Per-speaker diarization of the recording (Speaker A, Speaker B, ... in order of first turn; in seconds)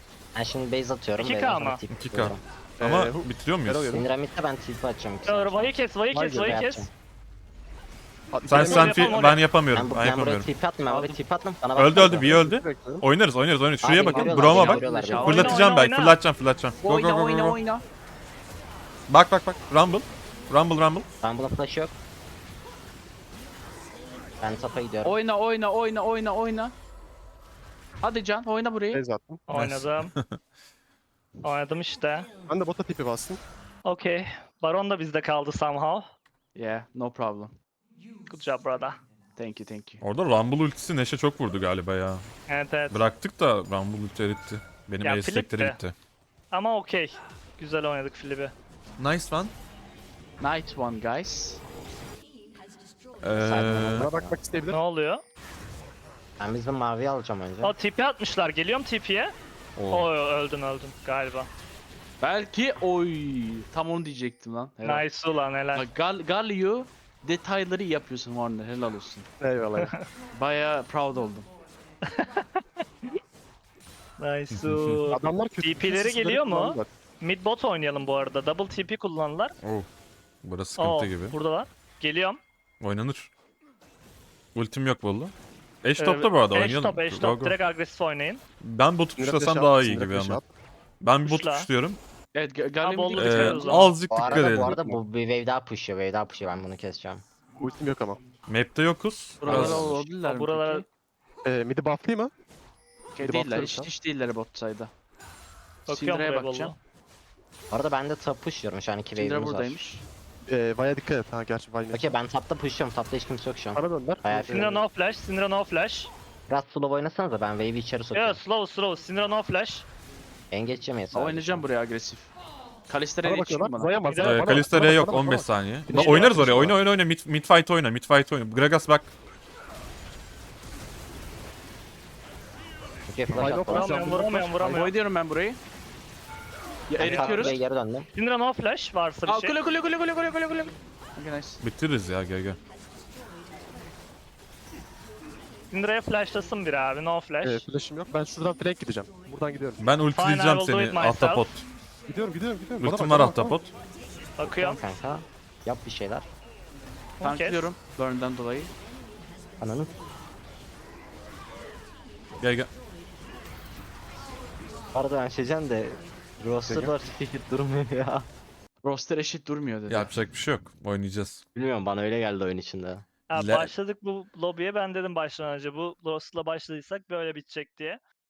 Speaker A: 0.3-2.4, 3.9-6.9, 9.7-12.4, 13.8-15.6, 21.2-21.9, 24.4-25.2, 53.4-54.4, 56.4-57.7, 94.1-97.2, 107.7-109.8, 111.9-114.8, 116.5-118.4, 120.5-121.7, 133.1-134.0, 137.0-138.1, 154.4-156.3, 159.6-159.9, 164.9-168.3, 171.6-173.1
Speaker B: 1.2-1.8, 5.2-6.9, 8.5-9.4, 15.2-16.2, 29.5-30.1, 31.4-32.3, 33.9-36.1, 38.3-39.0, 42.5-43.0, 45.0-45.8, 46.5-48.5, 54.7-55.2, 57.6-59.3, 59.9-61.5, 64.8-65.9, 72.0-73.1, 74.2-79.6, 80.8-82.4, 86.0-88.4, 91.2-91.7, 92.8-93.9, 100.2-100.8, 105.9-106.8, 114.5-116.1, 118.1-119.9, 124.0-124.6, 126.0-126.3, 133.7-134.9, 138.1-139.6, 145.7-147.6, 150.1-151.5, 154.4-154.8, 157.2-157.7, 173.3-178.0
Speaker C: 1.9-3.9, 8.5-10.5, 11.8-17.6, 19.1-21.1, 29.5-30.4, 40.0-42.2, 42.9-46.0, 49.0-49.5, 53.2-54.1, 59.8-60.1, 74.5-75.0, 79.6-79.9, 80.4-81.3, 82.8-83.3, 84.5-87.6, 88.6-90.4, 91.0-92.0, 93.1-94.8, 98.5-100.0, 124.2-129.1, 141.6-142.6, 149.8-151.7, 152.8-153.7, 162.4-162.7, 169.9-171.4, 173.4-173.7
Speaker D: 2.8-4.0, 6.2-6.5, 8.3-9.2, 12.0-13.1, 14.0-14.9, 28.9-29.4, 32.5-33.4, 53.7-54.8, 69.4-69.9, 75.1-76.9, 89.2-90.5, 94.1-95.0, 97.6-98.2, 101.5-102.3, 103.2-103.9, 110.5-112.1, 113.8-114.8, 123.2-126.8, 133.3-134.9, 137.0-137.6, 147.4-149.8, 152.1-153.6
Speaker E: 10.9-11.2, 14.5-15.6, 16.8-17.8, 25.0-26.8, 28.0-29.0, 36.5-37.6, 39.4-40.0, 50.4-51.6, 62.2-65.0, 65.8-69.3, 70.3-71.5, 92.3-93.9, 99.4-100.8, 103.2-104.9, 105.9-106.7, 109.2-110.0, 121.1-122.3, 122.9-124.1, 134.7-135.6, 136.9-137.6, 139.3-141.6, 157.2-158.7, 168.8-170.1